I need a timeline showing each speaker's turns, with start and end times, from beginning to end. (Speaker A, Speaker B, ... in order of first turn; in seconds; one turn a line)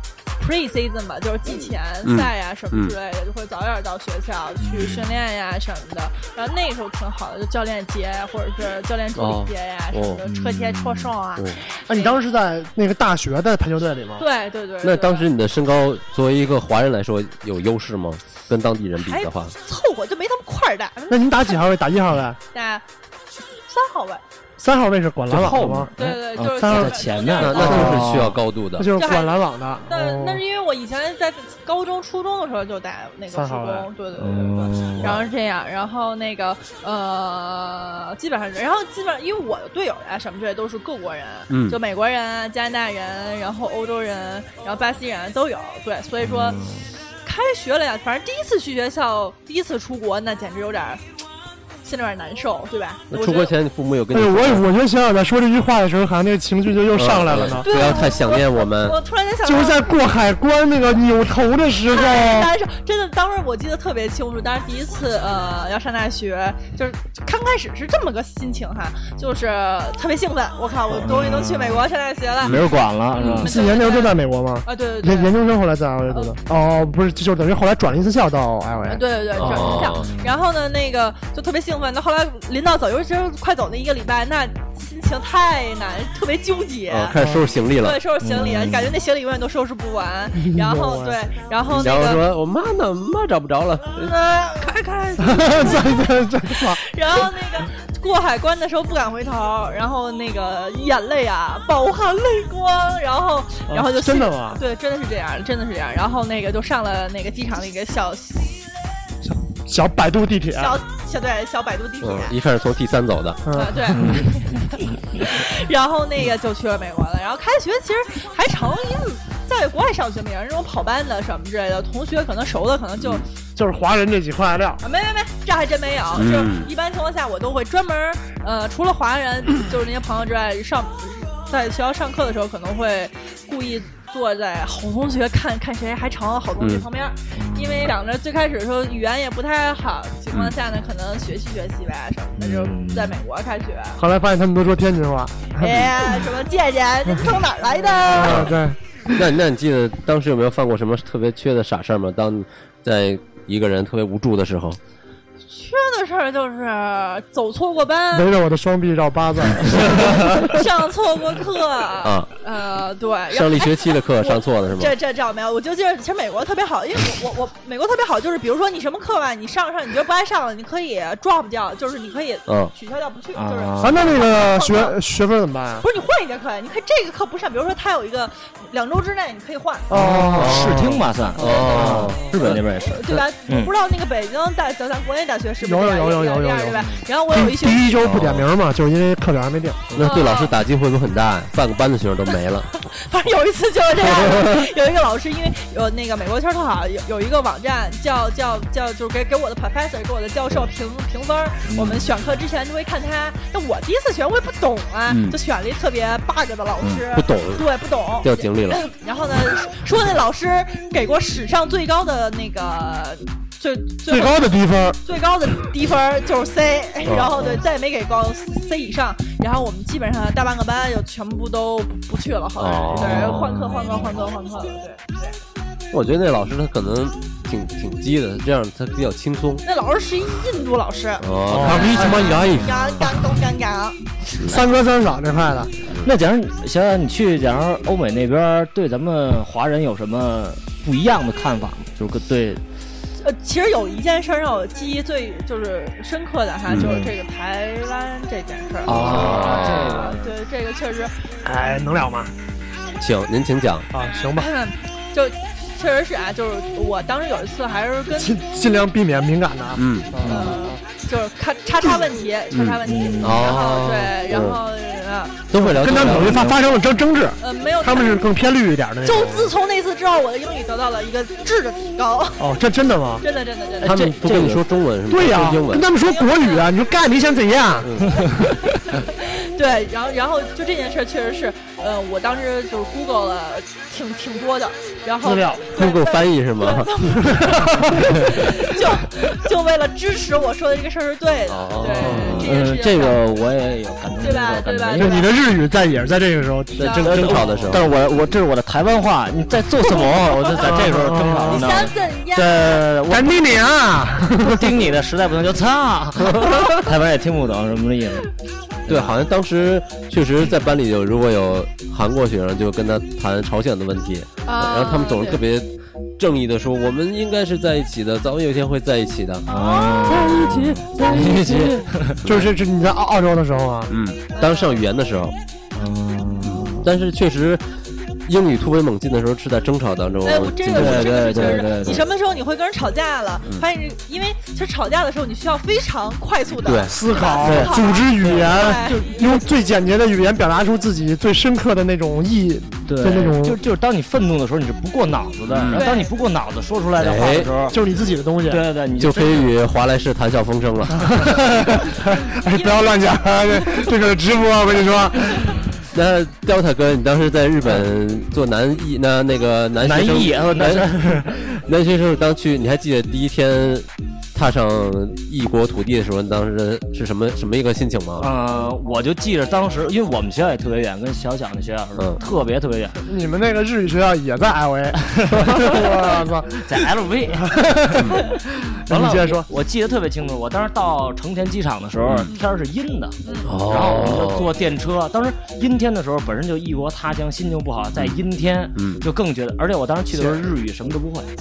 Speaker A: 0.4-12.2
Speaker B: 2.0-3.0
Speaker C: 4.6-5.0
Speaker B: 9.2-10.2
Speaker C: 10.3-11.1
Speaker D: 11.9-14.2
Speaker A: 14.2-15.3
Speaker B: 14.8-19.5
Speaker A: 19.0-21.5
Speaker D: 21.1-22.4
Speaker A: 22.5-22.8
Speaker A: 23.6-24.2
Speaker D: 24.6-25.9
Speaker C: 25.3-28.4
Speaker A: 26.0-28.0
Speaker D: 26.6-27.0
Speaker B: 27.4-28.9
Speaker D: 27.6-28.2
Speaker D: 28.8-30.4
Speaker A: 29.0-46.6
Speaker D: 33.3-33.9
Speaker C: 34.2-35.1
Speaker B: 41.5-41.8
Speaker C: 46.2-46.9
Speaker A: 47.2-51.0
Speaker A: 51.8-53.5
Speaker B: 53.1-54.6
Speaker D: 54.1-57.7
Speaker B: 57.0-59.0
Speaker A: 57.4-60.0
Speaker D: 59.4-62.5
Speaker A: 61.9-72.6
Speaker C: 71.0-71.8
Speaker C: 72.5-73.5
Speaker A: 73.2-75.3
Speaker D: 73.4-79.8
Speaker A: 76.1-76.4
Speaker A: 78.9-87.2
Speaker B: 79.4-80.1
Speaker C: 79.8-80.4
Speaker B: 86.9-88.0
Speaker A: 87.8-92.2
Speaker C: 88.2-89.0
Speaker D: 90.5-91.2
Speaker B: 91.7-94.1
Speaker A: 94.0-108.6
Speaker D: 95.2-96.8
Speaker D: 103.7-104.6
Speaker D: 109.2-110.8
Speaker A: 110.6-112.3
Speaker B: 112.0-113.4
Speaker D: 113.5-114.0
Speaker A: 113.5-123.3
Speaker C: 114.0-114.3
Speaker D: 123.6-124.8
Speaker A: 124.8-144.0
Speaker B: 126.1-126.7
Speaker B: 136.6-136.9
Speaker C: 137.3-137.9
Speaker C: 142.4-143.2
Speaker D: 144.0-146.0
Speaker A: 145.6-148.6
Speaker D: 148.1-148.8
Speaker B: 148.2-148.6
Speaker B: 149.1-154.8
Speaker A: 155.5-158.4
Speaker D: 158.1-160.6
Speaker A: 159.8-175.0
Speaker B: 162.0-162.3
Speaker B: 163.3-164.9
Speaker C: 173.3-174.2
Speaker D: 173.8-175.9
Speaker A: 175.8-179.9
Speaker D: 179.9-182.2
Speaker C: 179.9-183.7
Speaker B: 180.0-183.2
Speaker A: 181.4-182.0
Speaker A: 182.8-188.0
Speaker D: 185.6-189.9
Speaker B: 188.0-188.5
Speaker B: 189.9-192.7
Speaker A: 190.0-190.6
Speaker A: 192.9-214.5
Speaker C: 201.7-202.1
Speaker B: 207.1-207.7
Speaker B: 208.2-208.8
Speaker D: 214.1-215.0
Speaker A: 215.1-225.3
Speaker B: 217.0-217.5
Speaker B: 222.6-223.6
Speaker C: 222.9-224.1
Speaker B: 225.9-229.7
Speaker A: 229.7-234.0
Speaker B: 231.2-232.7
Speaker D: 231.5-232.5
Speaker C: 231.7-233.2
Speaker D: 234.4-235.7
Speaker C: 236.0-242.6
Speaker A: 243.2-251.2
Speaker B: 246.7-247.0
Speaker C: 246.8-247.1
Speaker B: 248.9-250.1
Speaker C: 248.9-250.3
Speaker D: 251.4-252.3
Speaker B: 253.0-253.9
Speaker D: 253.9-254.5
Speaker A: 254.4-258.4
Speaker D: 258.1-260.8
Speaker B: 259.8-260.1
Speaker C: 260.2-260.6
Speaker A: 260.2-265.4
Speaker B: 262.5-264.6
Speaker C: 262.9-263.6
Speaker B: 265.5-266.5
Speaker D: 265.5-269.5
Speaker C: 266.0-266.6
Speaker A: 267.4-268.2
Speaker A: 269.0-272.5
Speaker D: 272.4-273.2
Speaker A: 273.2-273.9
Speaker C: 273.8-274.6
Speaker B: 273.8-275.9
Speaker D: 275.1-278.2
Speaker A: 276.0-276.7
Speaker B: 277.8-278.2
Speaker A: 278.9-293.2
Speaker D: 285.2-285.7
Speaker B: 285.7-286.9
Speaker D: 287.2-288.1
Speaker B: 291.5-292.5
Speaker C: 292.1-295.2
Speaker A: 294.2-295.3
Speaker D: 295.0-297.7
Speaker B: 296.8-297.9
Speaker A: 296.8-297.2
Speaker C: 297.0-303.3
Speaker A: 299.8-300.9
Speaker D: 300.6-301.7
Speaker A: 301.5-302.9
Speaker D: 303.1-304.8
Speaker C: 304.4-308.3
Speaker C: 308.9-309.2
Speaker B: 308.9-319.4
Speaker A: 314.5-315.4
Speaker A: 319.5-321.8
Speaker C: 319.5-322.2
Speaker B: 320.1-320.9
Speaker B: 322.2-322.5
Speaker D: 322.2-323.9
Speaker B: 323.9-325.4
Speaker A: 324.3-324.8
Speaker C: 325.8-326.9
Speaker B: 326.4-327.6
Speaker B: 328.3-332.0
Speaker A: 330.2-339.1
Speaker C: 330.7-332.0
Speaker B: 336.6-337.0
Speaker D: 336.8-343.6
Speaker C: 337.4-339.4
Speaker C: 342.9-347.8
Speaker B: 345.5-345.9
Speaker A: 345.8-346.1
Speaker B: 347.0-347.5
Speaker D: 347.7-348.6
Speaker C: 348.5-349.5
Speaker B: 349.0-351.3
Speaker D: 351.0-355.5
Speaker A: 352.5-352.9
Speaker B: 355.9-368.3
Speaker C: 359.8-361.6
Speaker C: 368.2-373.0
Speaker D: 373.0-378.2
Speaker C: 375.1-391.3
Speaker D: 378.9-379.5
Speaker B: 382.0-382.3
Speaker A: 383.2-383.5
Speaker B: 383.4-384.5
Speaker B: 388.8-389.0
Speaker B: 390.1-390.5